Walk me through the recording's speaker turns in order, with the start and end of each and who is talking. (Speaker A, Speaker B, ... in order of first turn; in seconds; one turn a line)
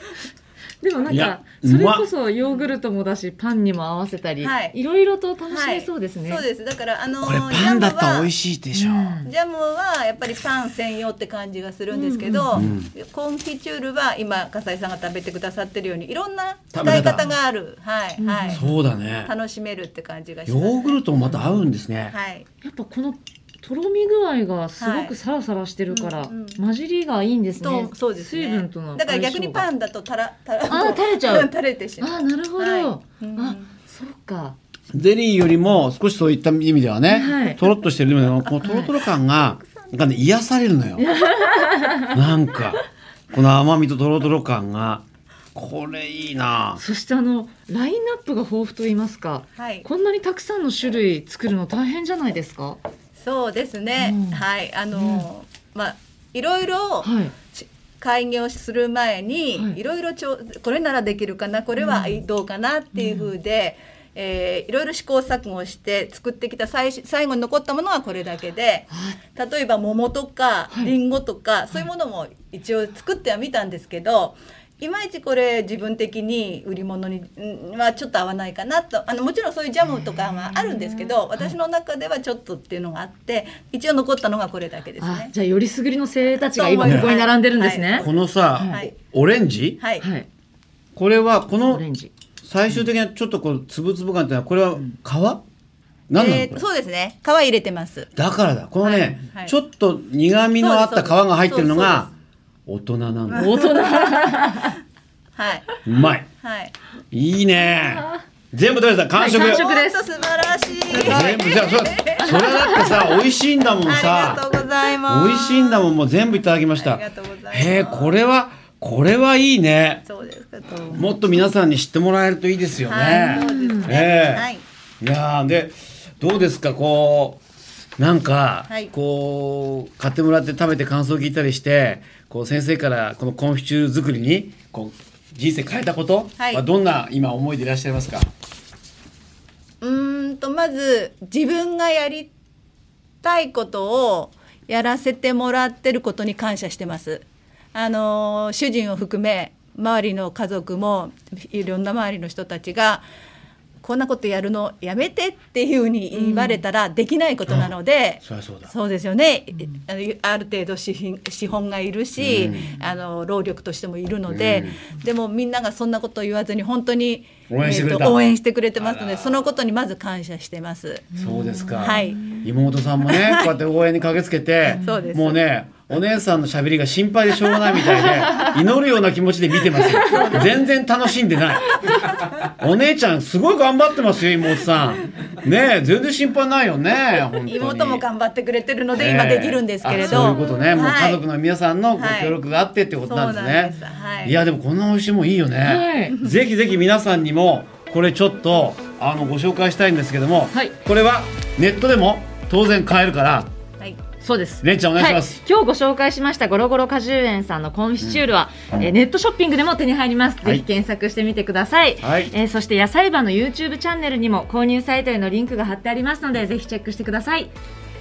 Speaker A: 0.8-6.5
Speaker B: 1.1-2.0
Speaker C: 4.4-4.7
Speaker C: 5.5-8.3
Speaker B: 7.2-9.2
Speaker A: 8.7-9.3
Speaker C: 9.2-18.6
Speaker A: 11.9-12.7
Speaker B: 12.5-12.9
Speaker B: 16.7-17.3
Speaker A: 18.2-18.7
Speaker B: 18.5-19.3
Speaker C: 19.2-21.0
Speaker B: 20.5-22.1
Speaker A: 21.2-21.7
Speaker C: 22.1-22.4
Speaker A: 22.6-29.6
Speaker C: 24.8-25.1
Speaker C: 25.9-26.6
Speaker C: 27.6-33.7
Speaker A: 30.7-34.5
Speaker B: 34.9-41.0
Speaker A: 37.1-37.6
Speaker A: 38.6-38.9
Speaker A: 41.0-42.2
Speaker B: 42.1-42.8
Speaker B: 43.3-46.8
Speaker A: 46.8-52.8
Speaker C: 49.5-49.9
Speaker C: 53.1-85.3
Speaker A: 54.0-54.4
Speaker A: 54.9-55.2
Speaker A: 57.0-57.3
Speaker A: 61.8-62.2
Speaker A: 62.9-63.3
Speaker A: 68.9-69.2
Speaker A: 79.9-81.5
Speaker A: 85.0-88.0
Speaker C: 86.5-89.0
Speaker B: 86.8-87.1
Speaker B: 88.0-89.8
Speaker A: 88.6-88.8
Speaker C: 89.8-90.0
Speaker A: 90.0-90.3
Speaker B: 91.0-91.8
Speaker A: 91.7-92.1
Speaker B: 92.4-95.4
Speaker B: 96.1-96.6
Speaker C: 96.1-98.1
Speaker B: 98.2-102.1
Speaker C: 98.8-99.5
Speaker C: 100.6-102.1
Speaker B: 102.7-103.5
Speaker C: 103.3-104.4
Speaker A: 103.3-104.8
Speaker C: 105.3-105.7
Speaker B: 105.8-106.2
Speaker C: 106.4-106.7
Speaker B: 107.1-109.6
Speaker A: 109.1-110.0
Speaker C: 109.3-112.4
Speaker A: 110.9-111.3
Speaker B: 110.9-114.4
Speaker A: 112.2-113.2
Speaker C: 113.8-115.9
Speaker B: 115.1-120.0
Speaker C: 116.7-118.2
Speaker C: 120.0-121.1
Speaker B: 120.9-124.5
Speaker C: 122.8-124.6
Speaker A: 123.0-124.0
Speaker B: 125.0-127.4
Speaker B: 128.0-138.3
Speaker C: 136.4-136.6
Speaker C: 139.8-142.3
Speaker C: 143.2-153.0
Speaker C: 153.8-171.1
Speaker A: 156.1-156.6
Speaker B: 158.2-158.7
Speaker B: 162.2-162.7
Speaker B: 164.3-164.8
Speaker B: 167.5-168.2
Speaker B: 168.8-169.5
Speaker A: 171.1-172.4
Speaker B: 171.2-181.8
Speaker C: 171.8-172.4
Speaker C: 174.6-175.4
Speaker A: 174.7-175.1
Speaker A: 177.8-178.6
Speaker A: 179.7-180.5
Speaker B: 182.4-188.0
Speaker C: 187.4-191.2
Speaker B: 188.9-203.5
Speaker C: 191.9-192.4
Speaker C: 193.0-194.4
Speaker A: 195.6-196.2
Speaker A: 204.2-217.5
Speaker B: 204.6-205.4
Speaker B: 212.0-212.3